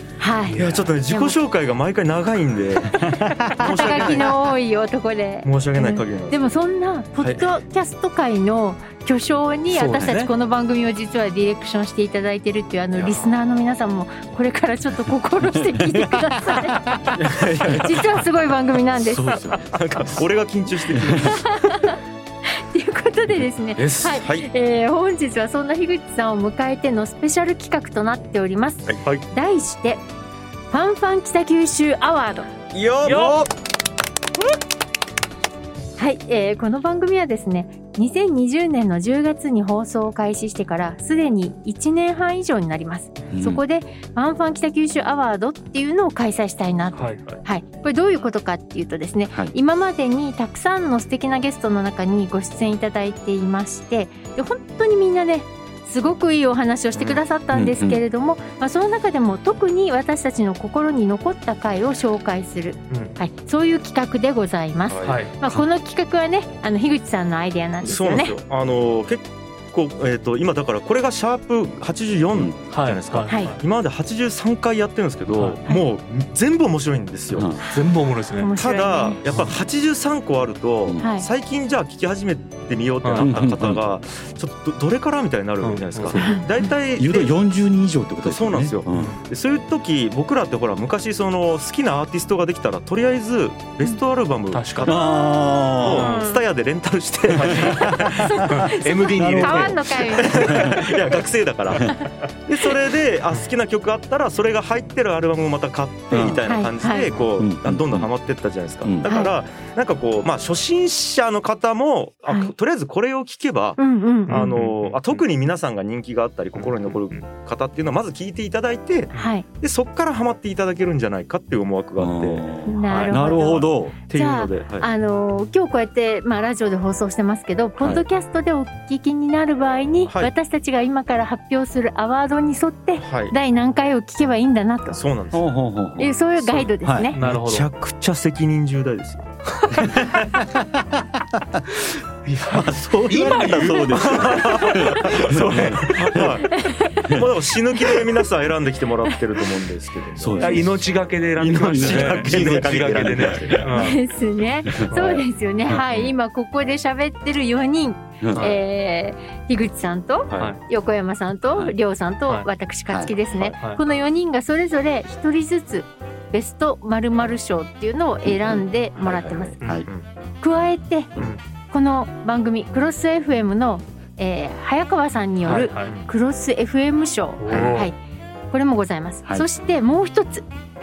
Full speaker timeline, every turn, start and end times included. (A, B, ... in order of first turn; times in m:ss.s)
0:00.2-0:01.4 A
0:00.5-0:00.9 B
0:00.6-0:04.3 C
0:03.6-0:17.1 A
0:05.4-0:06.6 C
0:07.2-0:07.5 C
0:09.7-0:10.3 B
0:13.0-0:13.3 C
0:15.6-0:16.2 D
0:17.2-0:18.2 C
0:17.6-0:19.4 A
0:19.2-0:20.2 D
0:19.7-0:21.5 C
0:20.9-0:21.3 D
0:21.2-0:22.0 A
0:22.5-0:30.0 A
0:23.8-0:24.4 C
0:28.9-0:29.2 C
0:30.7-0:32.5 A
0:32.7-0:33.5 C
0:33.0-0:33.4 B
0:36.0-1:08.4 A
0:43.3-0:43.6 D
0:46.9-0:47.4 B
0:57.5-0:58.0 D
1:02.9-1:03.2 B
1:04.9-1:05.3 C
1:05.0-1:05.6 B
1:07.8-1:17.5 C
1:12.7-1:13.6 B
1:13.3-1:13.5 A
1:15.3-1:15.6 B
1:17.3-1:17.6 D
1:17.7-1:18.6 B
1:18.4-1:19.2 A
1:18.6-1:27.3 C
1:19.3-1:19.6 B
1:21.0-1:21.3 A
1:23.0-1:23.4 B
1:23.2-1:23.8 D
1:25.6-1:26.2 B
1:26.2-1:26.4 A
1:27.0-1:29.1 D
1:28.2-1:35.2 C
1:28.9-1:29.2 B
1:34.5-1:35.0 B
1:34.8-1:36.1 D
1:35.8-1:41.9 C
1:35.9-1:36.2 B
1:35.9-1:36.4 A
1:37.3-1:37.9 B
1:37.5-1:41.0 A
1:38.4-1:40.8 B
1:39.2-1:39.5 D
1:42.4-2:02.5 C
1:46.1-1:46.4 D
1:46.4-1:47.3 A
1:47.4-1:48.1 D
1:48.8-1:49.1 D
1:49.0-1:49.3 A
1:52.3-1:52.5 A
1:53.8-1:54.4 A
1:54.3-1:55.3 B
1:56.5-1:57.2 B
1:59.1-1:59.5 A
2:02.0-2:04.0 D
2:02.7-2:15.0 A
2:02.9-2:03.2 B
2:04.1-2:04.9 C
2:10.1-2:10.3 C
2:13.0-2:13.4 C
2:14.9-2:15.5 C
2:15.3-2:16.1 D
2:16.0-2:17.2 A
2:16.4-2:19.3 C
2:17.2-2:17.7 B
2:19.6-2:19.9 B
2:19.8-2:20.1 C
2:20.6-2:21.6 D
2:22.3-2:25.8 B
2:22.5-2:26.4 D
2:23.5-2:26.5 C
2:26.4-2:27.0 A
2:27.1-2:30.7 C
2:29.1-2:29.4 A
2:30.2-2:30.8 D
2:30.4-2:34.0 B
2:31.4-2:33.6 D
2:31.7-2:33.7 C
2:33.6-2:49.6 A
2:34.9-2:35.2 B
2:35.7-2:36.1 C
2:38.2-2:38.5 D
2:38.3-2:38.6 B
2:40.3-2:40.6 C
2:42.9-2:43.1 D
2:43.4-2:43.8 B
2:49.0-2:50.1 C
2:50.4-2:51.1 A
2:51.7-2:58.0 A
2:55.4-2:56.0 B
2:57.4-2:57.9 B
2:58.5-3:00.4 A